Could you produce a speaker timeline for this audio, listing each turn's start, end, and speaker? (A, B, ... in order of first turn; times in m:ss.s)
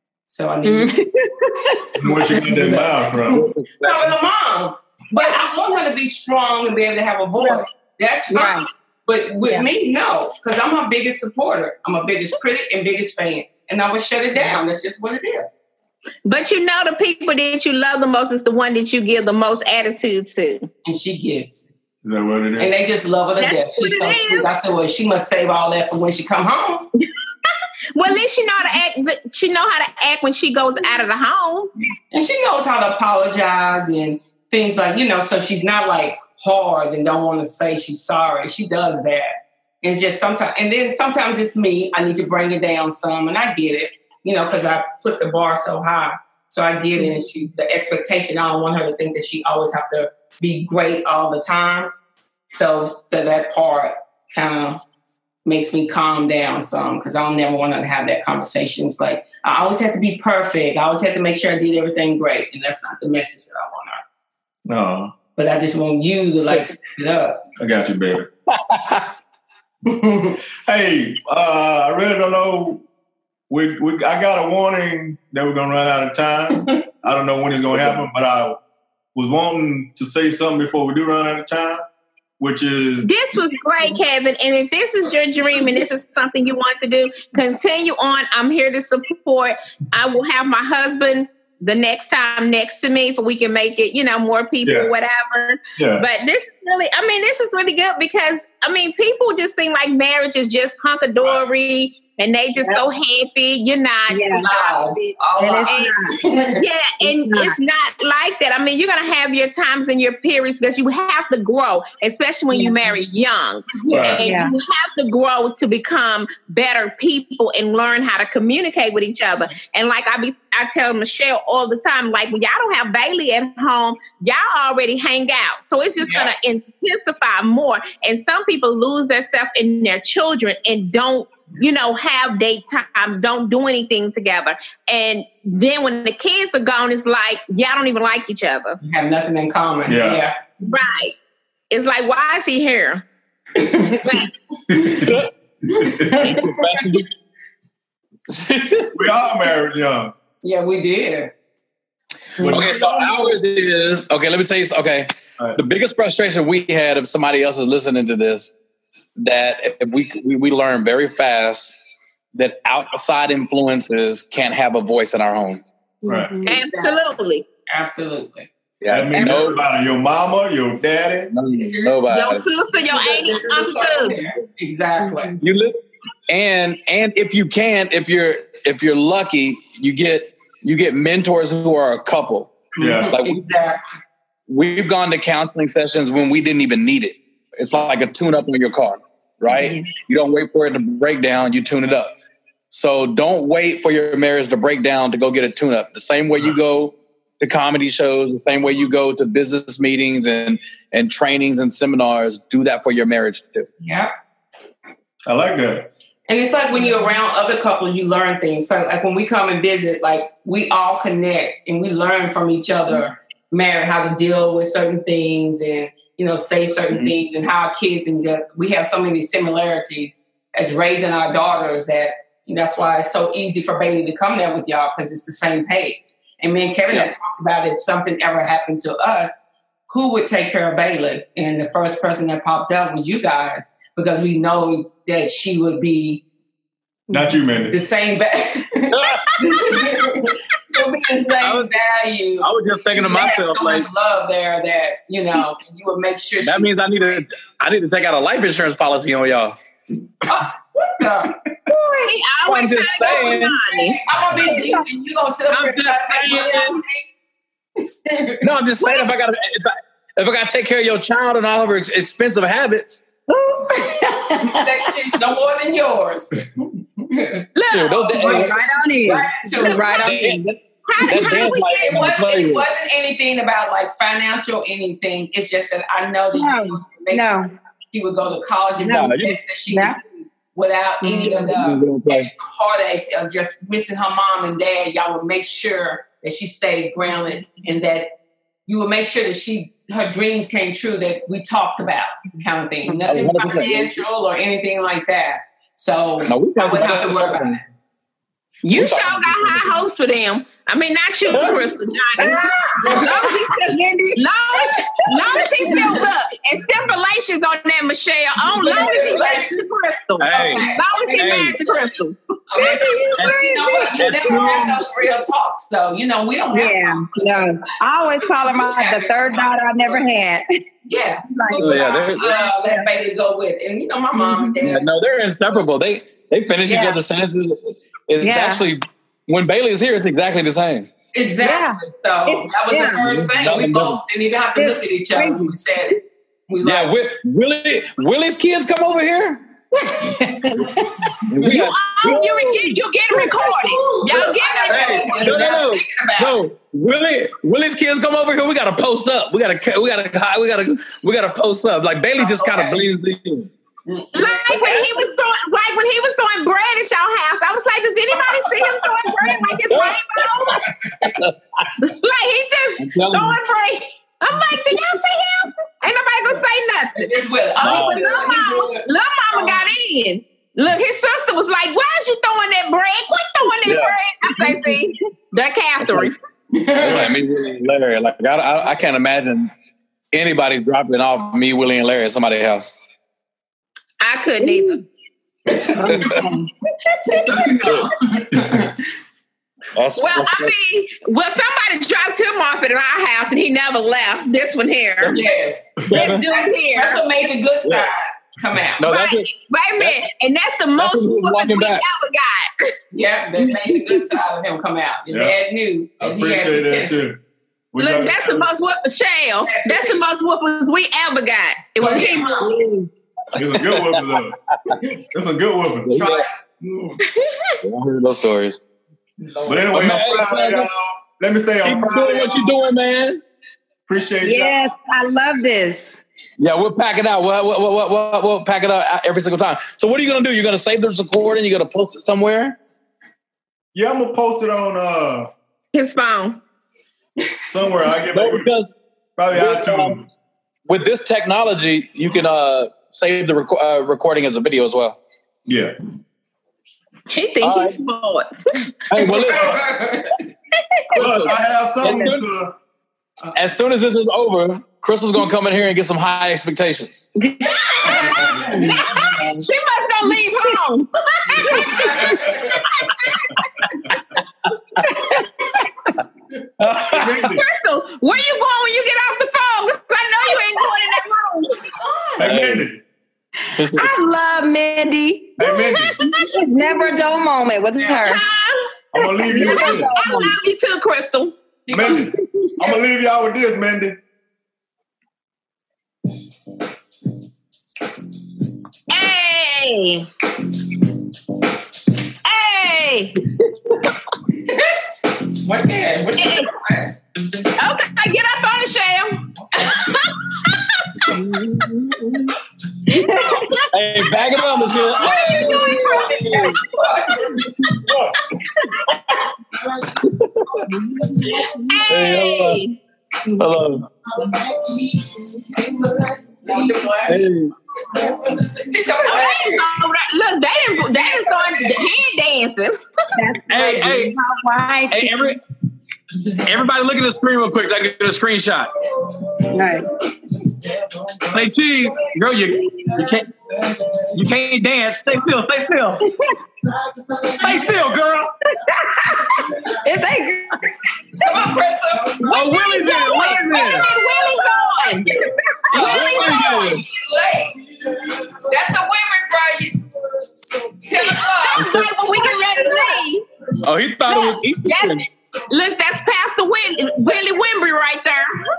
0:00.3-0:01.0 A
0:00.6-0:02.1 B
0:02.0-0:03.5 C
0:02.0-0:15.6 A
0:03.3-0:04.1 D
0:07.4-0:07.6 B
0:08.3-0:08.7 B
0:16.2-0:20.7 E
0:20.8-0:21.7 A
0:22.0-0:22.7 C
0:22.6-0:26.9 A
0:23.4-0:24.5 E
0:28.0-0:31.7 E
0:32.1-0:51.9 A
0:52.5-0:54.8 A
0:55.4-1:04.0 A
1:04.7-1:05.1 C
1:05.4-1:07.4 A
1:07.6-1:08.3 C
1:08.5-1:09.1 D
1:09.8-1:10.4 A
1:10.6-1:12.8 C
1:13.5-1:18.6 C
1:19.2-1:21.8 C
1:22.4-1:23.1 C
1:23.0-1:45.2 E
1:35.8-1:36.1 C
1:42.6-1:42.8 B
1:44.1-1:44.5 B
1:44.3-1:46.6 A
1:45.4-1:46.2 B
1:45.7-2:18.8 E
1:47.0-1:47.6 B
1:52.5-1:52.9 B
1:53.8-1:54.3 A
1:53.9-1:54.2 C
1:54.2-1:54.6 B
2:06.0-2:06.3 A
2:18.8-2:20.4 A
2:19.9-2:20.3 C
2:20.6-2:21.2 E
2:21.7-2:23.0 E
2:23.6-2:24.2 A
2:24.0-2:24.3 E
2:24.7-2:25.2 C
2:24.8-2:25.1 A
2:25.0-2:25.3 D
2:25.7-2:26.9 A
2:25.7-2:26.1 C
2:26.1-2:27.1 D
2:28.3-2:29.0 D
2:28.9-2:30.1 C
2:30.4-2:31.3 A
2:32.4-2:32.8 A
2:32.4-2:33.4 C
2:32.4-2:38.5 D
2:39.2-2:41.8 D
2:42.4-2:45.6 D
2:46.0-2:46.6 B
2:46.1-2:46.4 C
2:46.4-2:47.4 E
2:46.5-2:47.0 A
2:47.7-2:48.5 A
2:48.8-2:49.6 D
2:48.9-2:51.3 C
2:49.1-2:49.5 B
2:51.3-2:52.5 D
2:51.5-2:52.0 A
2:52.1-2:54.2 E
2:52.8-2:55.4 A
2:55.0-2:55.4 B
2:55.4-3:03.4 D
3:02.8-3:03.8 A
3:02.8-3:03.1 C
3:04.5-3:12.1 D
3:09.5-3:09.9 B
3:12.7-3:23.7 D
3:23.8-3:24.1 A
3:25.3-3:25.9 C
3:26.3-3:56.2 A
3:57.1-3:57.4 B
3:57.1-3:57.7 C
3:57.7-4:06.7 A
3:58.9-3:59.4 D
4:01.4-4:01.7 D
4:02.4-4:03.9 D
4:06.4-4:09.6 D
4:10.2-4:11.4 A
4:11.7-4:12.2 B
4:12.0-4:14.0 E
4:12.4-4:13.6 D
4:13.1-4:17.1 A
4:14.4-4:14.9 B
4:15.5-4:16.8 D
4:17.8-4:18.4 A
4:18.4-4:23.1 D
4:18.8-4:19.1 E
4:23.3-4:24.9 B
4:24.2-4:27.5 A
4:27.6-4:28.6 E
4:27.7-4:28.6 D
4:28.1-4:30.5 B
4:29.0-4:30.0 A
4:29.6-4:30.2 E
4:30.0-4:32.7 D
4:30.9-4:31.9 E
4:31.2-4:48.1 A
4:36.3-4:37.5 B
4:38.8-4:40.0 B
4:38.9-4:39.4 D
4:41.0-4:41.5 B
4:41.3-4:42.3 D
4:48.7-4:57.6 A
4:53.0-4:54.0 D
4:56.2-4:57.6 D
4:58.6-5:12.2 E
4:58.7-4:59.8 D
5:01.3-5:01.6 D
5:02.2-5:06.0 B
5:05.7-5:06.0 A
5:08.6-5:09.6 A
5:08.7-5:09.1 B
5:10.2-5:11.6 D
5:10.3-5:11.9 A
5:12.5-5:20.1 A
5:12.6-5:14.8 B
5:13.2-5:14.7 D
5:16.5-5:20.5 B
5:20.9-5:24.9 A
5:21.3-5:22.9 B
5:21.6-5:22.4 D
5:24.2-5:24.6 B
5:24.6-5:30.9 D
5:26.6-5:27.0 B
5:28.2-5:28.6 B
5:31.1-5:36.9 A
5:31.4-5:33.0 B
5:33.0-5:34.0 D
5:34.6-5:35.6 B
5:36.6-5:39.4 D
5:39.9-5:40.8 B
5:41.3-5:42.8 D
5:41.4-5:45.5 E
5:43.4-5:46.4 A
5:44.7-5:53.5 D
5:52.2-5:52.8 A
5:53.9-5:55.0 A
5:54.1-6:00.6 E
5:58.5-6:01.7 D
6:00.8-6:01.1 A
6:01.8-6:07.1 E
6:02.8-6:03.4 D
6:07.0-6:09.6 A
6:07.6-6:08.0 D
6:07.6-6:16.2 E
6:13.6-6:14.6 D
6:15.8-6:16.1 D
6:16.5-6:17.1 A
6:16.8-6:19.5 D
6:16.8-6:17.1 C
6:20.1-6:22.8 D
6:24.0-6:24.9 E
6:24.4-6:24.7 B
6:25.5-6:26.3 D
6:25.7-6:26.5 B
6:27.0-6:28.8 A
6:27.6-6:27.9 D
6:29.8-6:30.5 D
6:30.0-6:35.2 E
6:35.1-6:38.9 A
6:35.8-6:36.2 D
6:35.9-6:37.0 E
6:37.6-6:37.9 D
6:38.8-6:40.0 D
6:38.8-6:42.5 E
6:40.8-6:41.8 D
6:42.9-6:47.0 A
6:43.6-6:44.0 B
6:45.1-6:45.3 C
6:46.0-6:47.2 C
6:47.7-6:48.5 C
6:47.8-6:52.6 E
6:49.4-6:50.0 A
6:51.8-6:52.5 A
6:52.4-6:52.9 B
6:53.4-6:54.4 C
6:53.5-6:54.8 D
6:55.1-6:56.0 C
6:55.9-6:56.3 D
6:55.9-6:57.0 A
6:57.1-6:57.6 E
6:57.6-6:58.6 D
6:59.2-6:59.8 A
6:59.5-7:02.4 C
6:59.7-7:00.7 D
7:01.6-7:03.2 D
7:03.9-7:04.6 C
7:04.2-7:06.0 B
7:06.4-7:12.6 D
7:13.7-7:15.3 C
7:15.7-7:16.4 E
7:17.5-7:18.5 C
7:18.1-7:18.7 D
7:19.2-7:20.1 C
7:19.3-7:20.0 D
7:20.7-7:25.0 D
7:25.5-7:25.8 C
7:27.1-7:28.3 E
7:27.4-7:27.8 D
7:28.9-7:29.6 D
7:29.0-7:29.2 E
7:29.0-7:30.2 A
7:29.3-7:29.6 C
7:30.9-7:32.3 D
7:30.9-7:32.5 C
7:31.8-7:32.2 B
7:33.3-7:37.1 D
7:37.2-7:43.4 E
7:37.8-7:38.7 A
7:38.5-7:39.3 B
7:41.5-7:42.6 A
7:44.9-7:45.2 B
7:46.6-7:47.3 D
7:46.7-7:47.4 C
7:47.2-7:51.7 E
7:51.8-7:52.2 A
7:52.2-7:52.8 C
7:52.2-7:52.7 D
7:53.5-7:53.9 D
7:53.6-7:55.4 B
7:55.4-7:56.0 C
7:55.4-7:57.0 E
7:56.0-7:58.2 B
7:58.0-7:58.7 E
7:58.9-7:59.9 C
7:59.0-8:00.4 B
7:59.3-8:01.4 E
8:01.7-8:02.8 A
8:01.7-8:04.0 C
8:08.9-8:10.1 E
8:12.2-8:13.2 E
8:14.4-8:14.7 A
8:15.3-8:17.0 A
8:16.2-8:16.5 E
8:17.6-8:21.1 E
8:21.1-8:22.4 B
8:22.9-8:26.5 E
8:22.9-8:23.6 B
8:23.7-8:26.5 D
8:24.5-8:27.8 A
8:25.1-8:26.6 B
8:27.9-8:28.1 D
8:28.9-8:29.2 D
8:29.9-8:30.7 D
8:30.7-8:31.8 B
8:31.6-8:32.8 E
8:31.9-8:32.6 D
8:33.4-8:33.9 D
8:34.2-8:37.2 A
8:37.0-8:37.5 D
8:37.9-8:39.7 A
8:39.0-8:42.9 E
8:41.0-8:41.7 A
8:43.1-8:45.3 B
8:43.5-8:44.2 D
8:44.9-8:45.4 D
8:46.2-8:48.7 D
8:49.5-8:49.9 B
8:51.3-8:53.3 D
8:54.1-8:56.0 D
8:56.0-8:56.4 B
8:57.3-8:58.3 D
8:58.5-9:00.6 B
9:01.2-9:01.6 B
9:01.2-9:02.2 A
9:02.2-9:03.9 D
9:02.2-9:05.2 E
9:02.7-9:06.2 B
9:05.7-9:11.7 A
9:05.7-9:06.8 E
9:05.8-9:06.8 D
9:11.2-9:13.3 E
9:11.6-9:11.9 D
9:12.1-9:13.0 B
9:13.6-9:15.0 D
9:14.1-9:18.5 E